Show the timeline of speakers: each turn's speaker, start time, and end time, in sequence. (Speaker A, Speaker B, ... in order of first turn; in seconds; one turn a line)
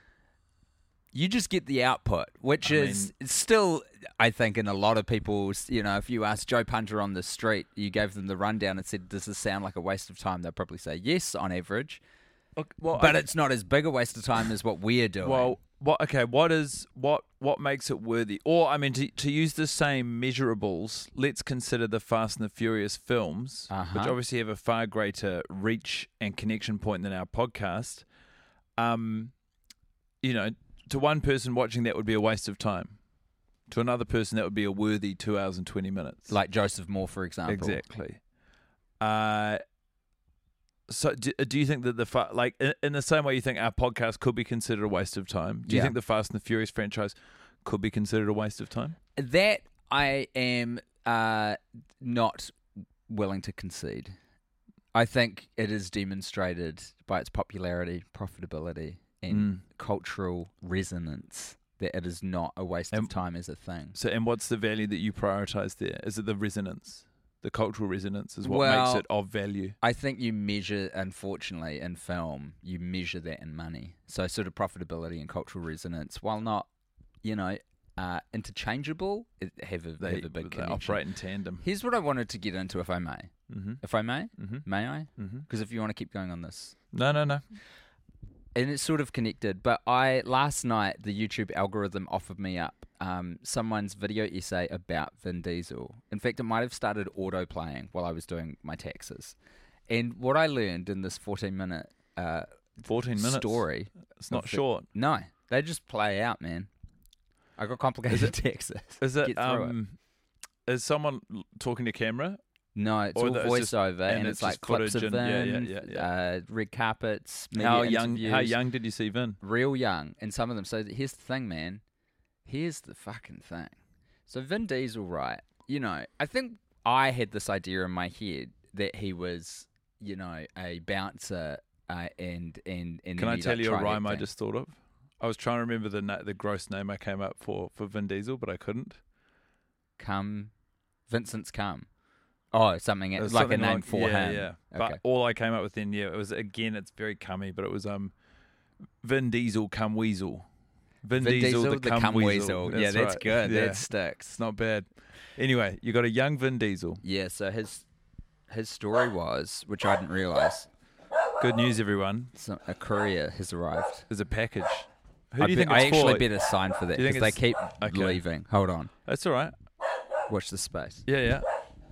Speaker A: 1.1-12.0
Speaker B: 2.6-3.1
Speaker B: 12.6-13.2
Speaker A: 12.9-15.6
Speaker B: 15.2-28.0
Speaker A: 23.7-24.2
Speaker B: 28.8-29.3
Speaker B: 30.2-33.0
Speaker B: 33.7-36.3
Speaker A: 36.3-37.8
Speaker B: 37.5-38.2
Speaker B: 39.0-39.6
Speaker B: 40.9-49.0
Speaker A: 45.6-45.9
Speaker A: 49.2-52.5
Speaker A: 53.1-54.1
Speaker A: 54.9-64.0
Speaker B: 59.3-59.6
Speaker B: 63.9-69.8
Speaker A: 68.4-69.0
Speaker A: 69.8-76.7
Speaker A: 77.2-81.0
Speaker B: 80.0-81.6
Speaker A: 81.6-83.3
Speaker B: 83.5-83.8
Speaker A: 83.8-86.7
Speaker B: 84.4-84.7
Speaker B: 85.2-85.5
Speaker B: 86.9-87.4
Speaker A: 88.5-99.3
Speaker A: 99.9-102.5
Speaker B: 102.8-104.8
Speaker A: 103.1-106.7
Speaker A: 107.6-109.8
Speaker B: 109.0-110.0
Speaker B: 110.7-112.4
Speaker A: 112.7-118.6
Speaker B: 113.2-116.1
Speaker B: 117.5-119.4
Speaker A: 119.4-121.8
Speaker A: 122.5-123.7
Speaker A: 124.3-134.2
Speaker B: 133.2-139.0
Speaker A: 140.0-140.5
Speaker A: 141.1-141.9
Speaker A: 142.5-145.0
Speaker B: 143.2-148.1
Speaker B: 149.0-150.4
Speaker B: 151.0-157.0
Speaker A: 151.2-154.3
Speaker A: 157.0-157.8
Speaker A: 158.5-160.7
Speaker B: 161.4-162.3
Speaker A: 162.3-164.1
Speaker B: 164.1-166.3
Speaker A: 165.4-168.9
Speaker B: 166.9-168.2
Speaker B: 169.0-169.5
Speaker A: 170.3-171.0
Speaker B: 171.1-171.4